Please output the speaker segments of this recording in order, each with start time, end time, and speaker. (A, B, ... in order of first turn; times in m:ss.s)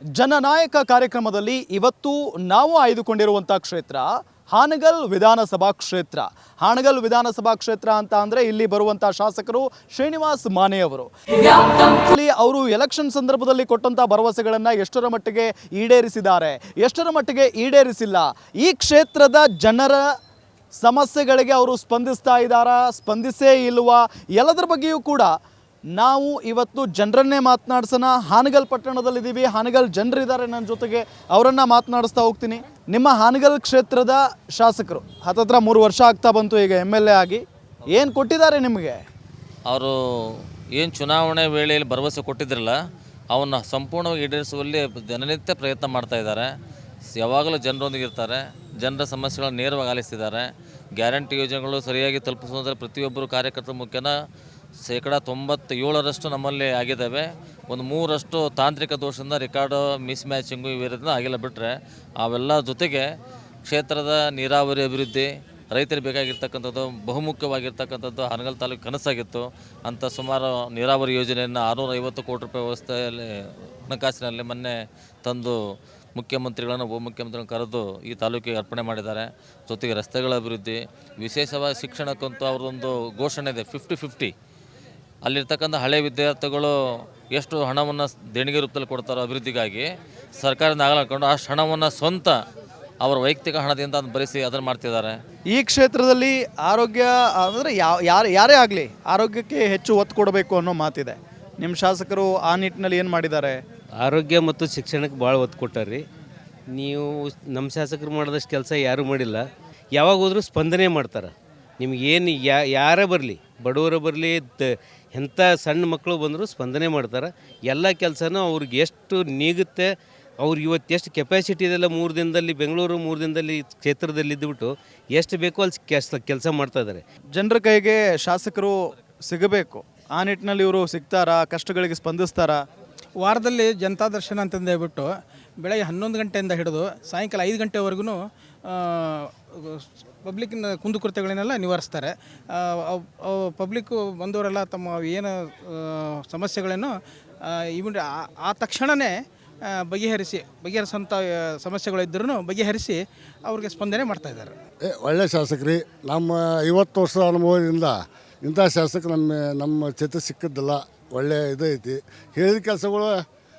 0:00.1-0:20.0 A
0:20.8-0:25.4 A
0:26.0-0:39.0 A
0:39.7-0:42.8 B
0:43.3-0:46.5 B
0:47.2-0:54.1 B
0:54.8-1:03.0 B
1:03.7-1:14.7 B
1:15.2-1:15.6 B
1:16.2-1:24.3 B
1:25.2-1:26.7 B
1:27.3-1:29.9 B
1:30.4-1:32.3 B
1:33.0-1:35.2 B
1:35.5-1:43.6 A
1:44.0-1:46.0 C
1:46.7-1:49.4 C
1:49.9-1:59.9 C
2:00.4-2:07.0 C
2:07.3-2:12.6 A
2:13.2-2:15.1 D
2:15.6-2:26.9 D
2:27.5-2:29.2 D
2:29.7-2:34.6 D
2:34.8-2:43.2 E